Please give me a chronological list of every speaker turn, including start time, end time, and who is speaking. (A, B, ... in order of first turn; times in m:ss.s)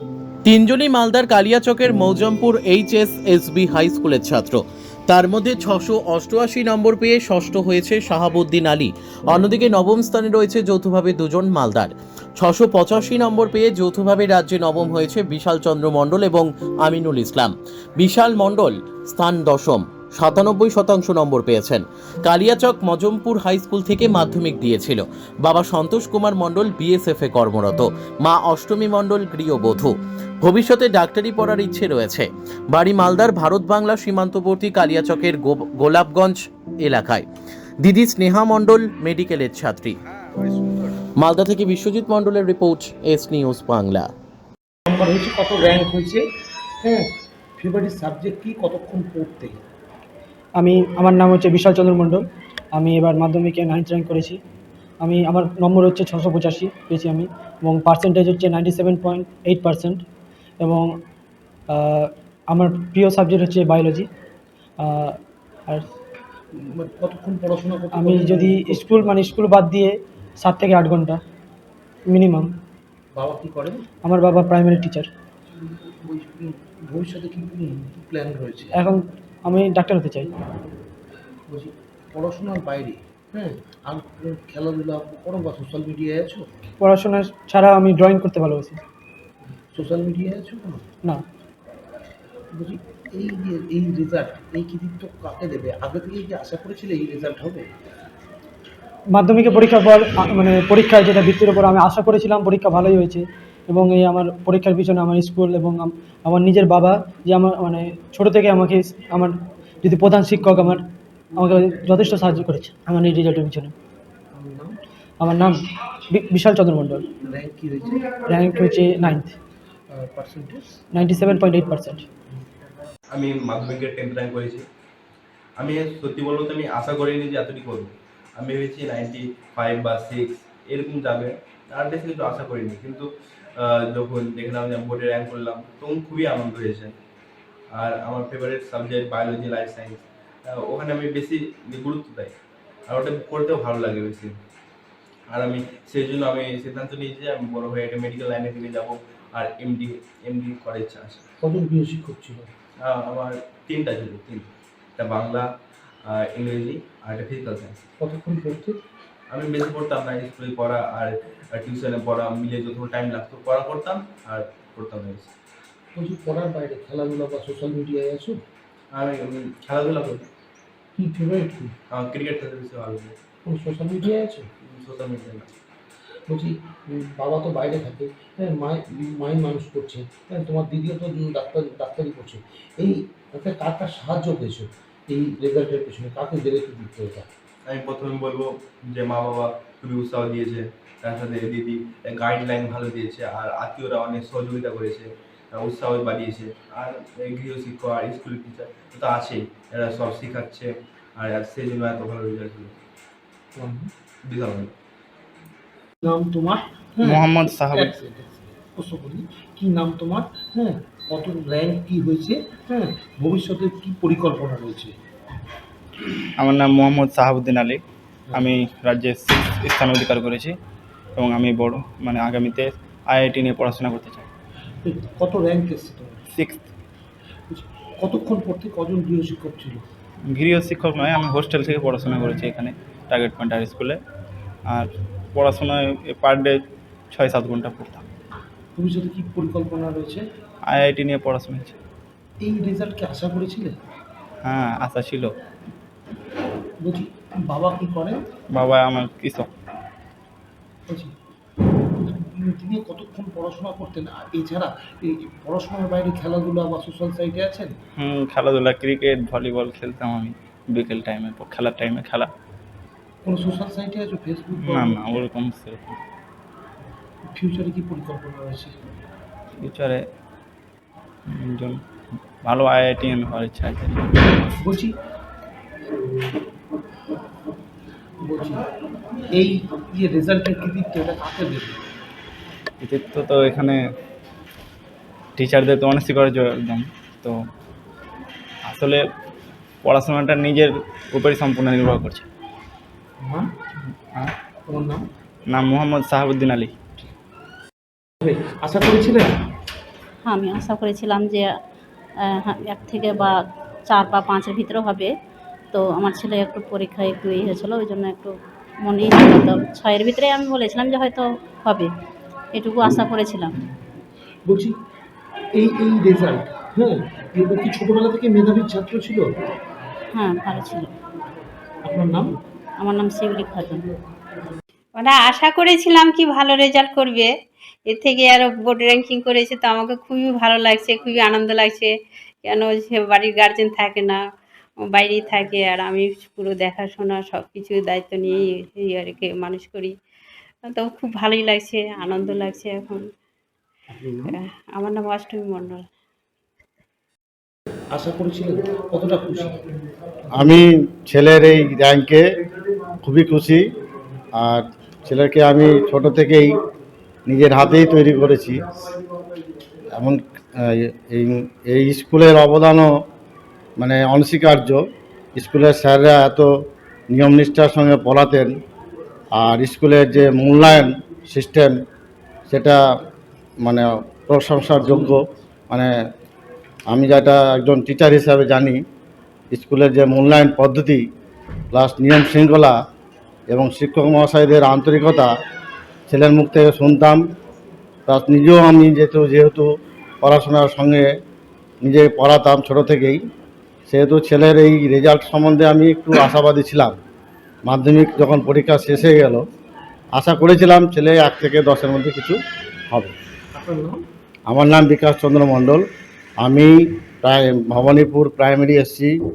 0:00.4-0:37.2 A
0:37.8-0:40.0 A
0:41.2-0:44.1 A
0:44.9-0:46.2 B
0:46.8-0:49.6 B
0:50.6-0:54.4 C
0:55.0-1:00.0 C
1:00.6-1:00.9 C
1:01.7-1:04.1 C
1:04.8-1:05.8 C
1:06.6-1:09.4 B
1:07.9-1:11.2 C
1:12.1-1:12.5 C
1:13.1-1:13.8 B
1:14.0-1:15.1 C
1:16.0-1:18.7 B
1:18.7-1:20.3 C
1:21.5-1:26.5 B
1:26.8-1:28.8 C
1:29.7-1:30.8 B
1:32.5-1:37.6 B
1:39.1-1:50.8 C
1:51.3-1:53.7 C
1:54.3-1:54.8 B
1:55.2-1:55.5 C
1:56.1-1:57.1 C
1:57.2-1:59.2 B
1:58.2-1:59.3 C
1:59.9-2:00.7 B
2:00.9-2:02.0 C
2:03.1-2:04.6 D
2:05.6-2:13.1 D
2:13.6-2:16.9 D
2:17.8-2:22.3 D
2:22.9-2:24.3 D
2:25.3-2:31.2 D
2:31.4-2:32.5 B
2:32.8-2:34.5 D
2:35.0-2:35.4 D
2:36.1-2:37.8 D
2:38.0-2:38.8 B
2:39.3-2:45.3 D
2:45.9-2:48.4 B
2:48.9-2:50.2 D
2:51.0-2:51.7 B
2:51.9-2:53.1 D
2:53.4-2:54.5 B
2:54.6-2:55.5 D
2:56.3-3:07.3 B
3:07.7-3:22.7 D
3:23.6-3:23.9 B
3:24.3-3:24.7 D
3:26.0-3:34.9 B
3:27.0-3:27.9 E
3:36.4-3:37.8 E
3:38.3-3:40.6 E
3:41.2-3:44.3 E
3:44.8-3:46.2 B
3:46.3-3:46.7 E
3:47.5-3:49.8 B
3:50.3-3:54.0 E
3:54.7-3:56.5 E
3:57.1-3:58.0 E
3:58.7-4:00.2 B
4:00.7-4:01.8 E
4:02.4-4:03.7 B
4:04.4-4:05.3 E
4:06.8-4:08.2 B
4:08.5-4:09.5 E
4:12.0-4:17.7 B
4:18.0-4:22.3 E
4:23.2-4:25.1 B
4:24.6-4:26.0 E
4:27.3-4:28.8 B
4:29.6-4:30.0 E
4:31.3-4:31.8 E
4:32.4-4:34.4 E
4:34.6-4:34.9 B
4:38.2-4:38.6 B
4:39.3-4:41.8 B
4:42.8-4:43.8 E
4:45.4-4:47.3 E
4:48.7-4:49.0 E
4:49.8-4:52.2 E
4:53.2-4:53.5 B
4:54.7-4:55.0 B
4:55.5-4:56.7 E
4:58.2-4:59.3 B
5:00.3-5:01.4 F
5:02.5-5:03.2 F
5:03.9-5:05.1 F
5:05.9-5:08.3 F
5:08.8-5:11.9 F
5:12.6-5:13.4 F
5:14.4-5:14.7 B
5:15.5-5:19.3 B
5:20.2-5:20.8 F
5:21.8-5:22.3 B
5:22.9-5:23.7 F
5:24.9-5:27.3 G
5:27.9-5:34.2 G
5:34.8-5:40.0 G
5:40.6-5:43.1 G
5:43.9-5:44.3 B
5:44.2-5:45.8 G
5:47.9-5:49.7 B
5:50.4-5:52.2 H
5:53.0-5:53.6 H
5:54.3-5:56.6 H
5:57.3-5:58.8 H
6:00.0-6:02.9 H
6:03.8-6:04.8 H
6:05.4-6:06.5 H
6:07.1-6:08.5 H
6:09.4-6:11.7 H
6:12.5-6:12.8 H
6:13.6-6:15.9 H
6:16.9-6:18.8 H
6:19.5-6:21.0 H
6:21.7-6:22.7 H
6:23.5-6:25.3 H
6:26.1-6:27.2 H
6:28.1-6:29.7 H
6:30.2-6:31.1 H
6:31.8-6:33.2 H
6:33.9-6:37.0 H
6:37.7-6:39.4 H
6:40.2-6:42.4 H
6:43.5-6:44.0 B
6:44.5-6:45.8 H
6:46.4-6:49.1 H